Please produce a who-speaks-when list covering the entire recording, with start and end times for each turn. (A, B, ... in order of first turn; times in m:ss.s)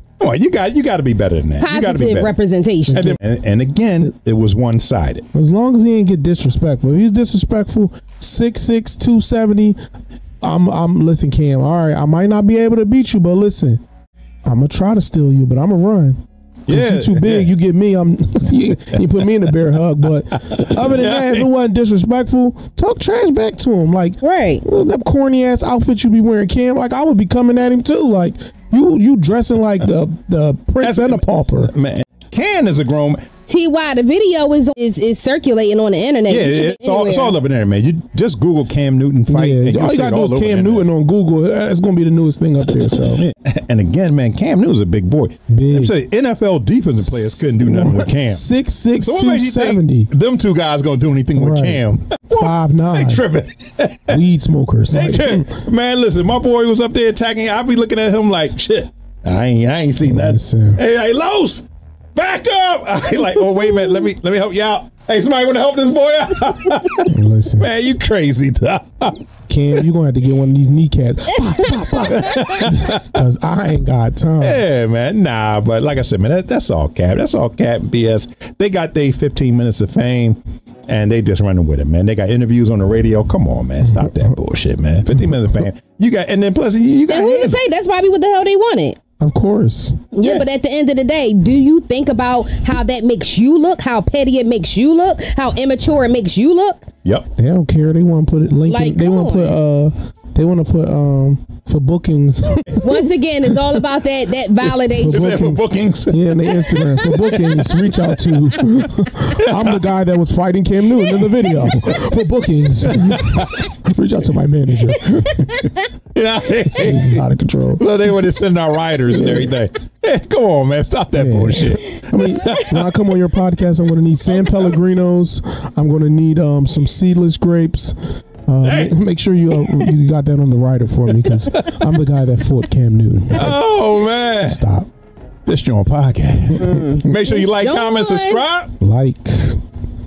0:00.2-0:02.3 A
0:01.6-0:03.1 B
0:02.9-0:05.2 A
0:02.9-0:03.2 C
0:05.3-0:09.8 C
0:10.4-0:13.8 C
0:14.4-0:31.7 C
0:16.7-0:17.5 A
0:20.5-0:21.5 A
0:24.2-0:24.6 B
0:30.8-0:33.2 A
0:33.5-0:37.4 B
0:36.3-0:40.9 A
0:39.3-0:43.2 C
0:43.0-0:48.5 A
0:45.5-0:46.0 C
0:47.0-0:50.1 C
0:49.0-0:54.2 A
0:51.4-0:53.3 C
0:54.1-0:55.5 C
0:54.9-1:01.6 A
1:00.0-1:00.8 C
1:02.2-1:09.2 A
1:07.1-1:07.7 C
1:09.5-1:14.6 C
1:12.0-1:13.1 A
1:14.4-1:27.6 A
1:23.8-1:24.3 C
1:27.1-1:29.0 B
1:29.2-1:30.1 C
1:30.1-1:36.9 B
1:30.2-1:30.5 A
1:37.4-1:43.1 C
1:38.7-1:39.6 B
1:42.8-1:45.3 B
1:44.9-1:55.4 C
1:45.0-1:48.8 A
1:49.4-1:49.8 A
1:51.0-1:51.8 A
1:52.9-1:53.7 A
1:55.1-1:57.2 A
1:56.7-1:57.8 C
1:57.8-2:02.8 A
1:59.1-1:59.5 C
2:01.1-2:13.6 C
2:04.3-2:04.7 A
2:08.6-2:08.9 A
2:11.2-2:11.8 A
2:13.3-2:14.6 A
2:14.4-2:14.9 C
2:15.5-2:18.8 A
2:16.6-2:18.4 B
2:18.8-2:19.6 C